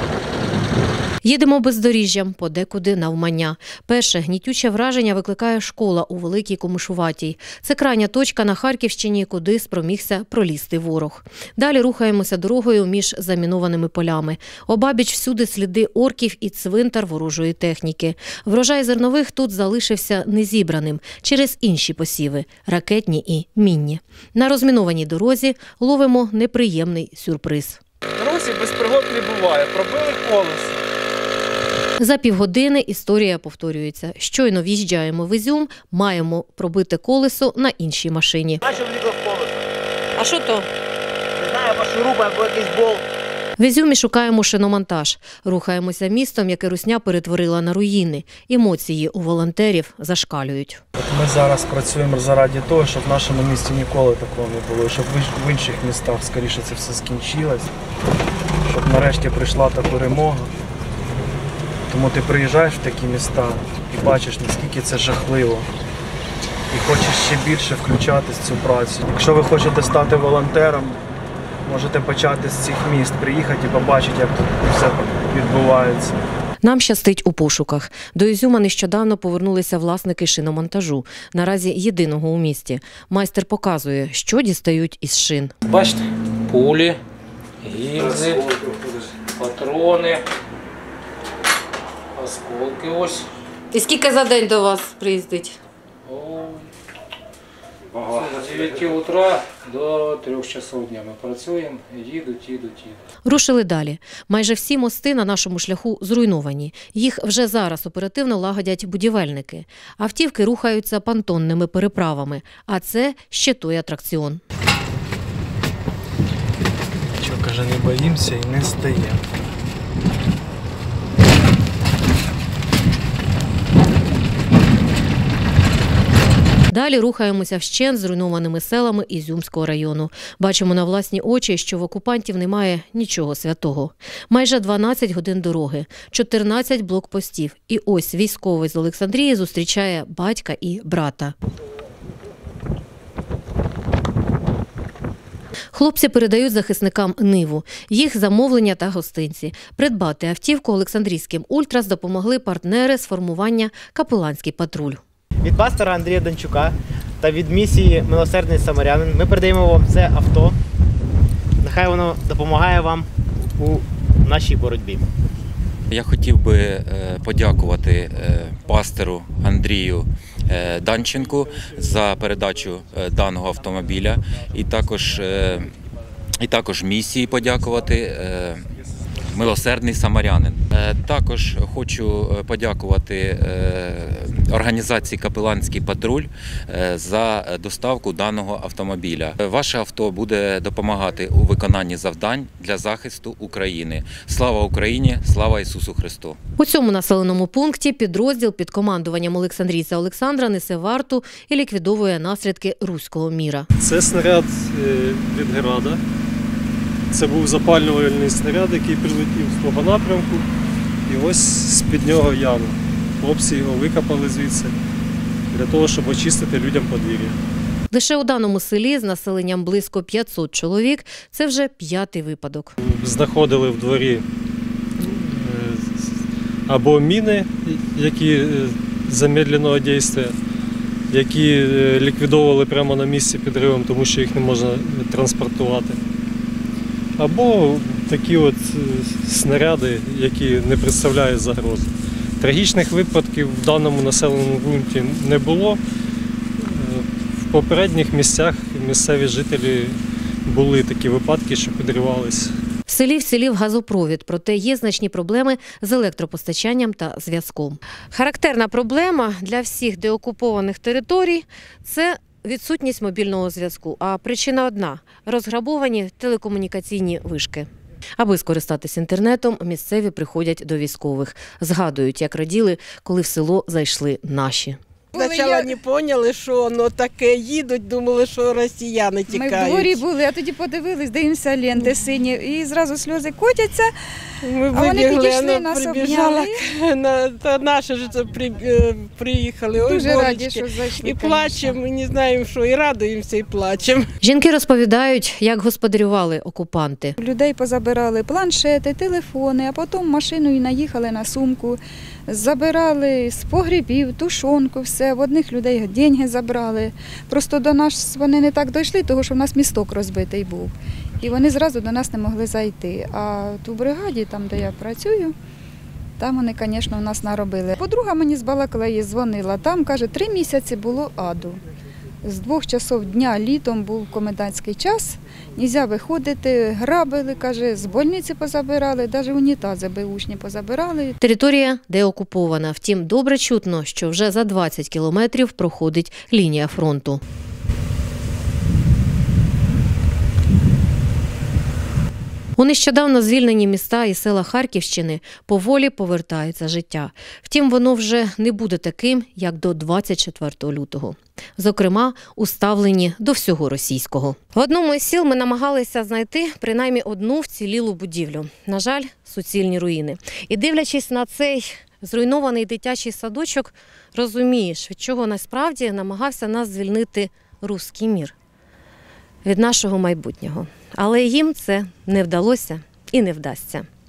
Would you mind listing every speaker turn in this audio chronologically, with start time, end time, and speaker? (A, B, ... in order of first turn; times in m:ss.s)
0:01.2-0:27.8 A
0:28.2-0:30.7 B
0:32.0-0:38.6 A
0:38.7-0:39.5 C
0:40.2-0:40.7 A
0:41.4-0:43.0 C
0:43.6-0:50.8 A
0:51.0-0:57.7 B
0:58.6-1:00.5 B
1:01.9-1:05.7 B
1:06.7-1:11.0 B
1:11.6-1:16.2 B
1:16.6-1:25.5 A
1:25.7-1:27.0 D
1:27.6-1:28.7 D
1:29.3-1:30.2 D
1:32.1-1:33.3 D
1:33.7-1:35.6 A
1:36.0-1:36.7 D
1:38.0-1:43.0 D
1:43.2-1:54.4 A
1:57.2-1:59.2 B
2:06.7-2:21.3 A
2:25.7-2:35.0 A
2:35.4-2:40.6 C
2:41.6-2:45.0 C
2:45.9-2:55.7 E
2:56.4-2:58.6 E
2:59.2-3:16.4 E
3:16.6-3:23.7 A
3:23.8-3:26.0 F
3:27.1-3:30.5 F
3:31.0-3:34.8 F
3:35.5-3:37.4 F
3:37.9-3:42.7 A
3:42.8-3:44.2 F
3:45.0-3:46.2 F
3:46.7-3:50.4 F
3:51.1-3:56.0 F
3:57.2-4:05.8 F
4:06.6-4:12.5 F
4:12.9-4:34.8 A
4:35.1-4:35.7 G
4:35.1-4:40.0 H
4:39.3-4:43.9 G
4:44.4-4:54.1 H
4:44.7-4:46.6 G
4:49.8-4:51.8 G
4:54.2-4:57.2 A
4:57.2-5:15.3 G
5:16.2-5:21.6 G
5:22.2-5:31.2 G
5:31.2-5:37.2 A
5:42.6-6:08.3 A
6:09.4-6:13.9 A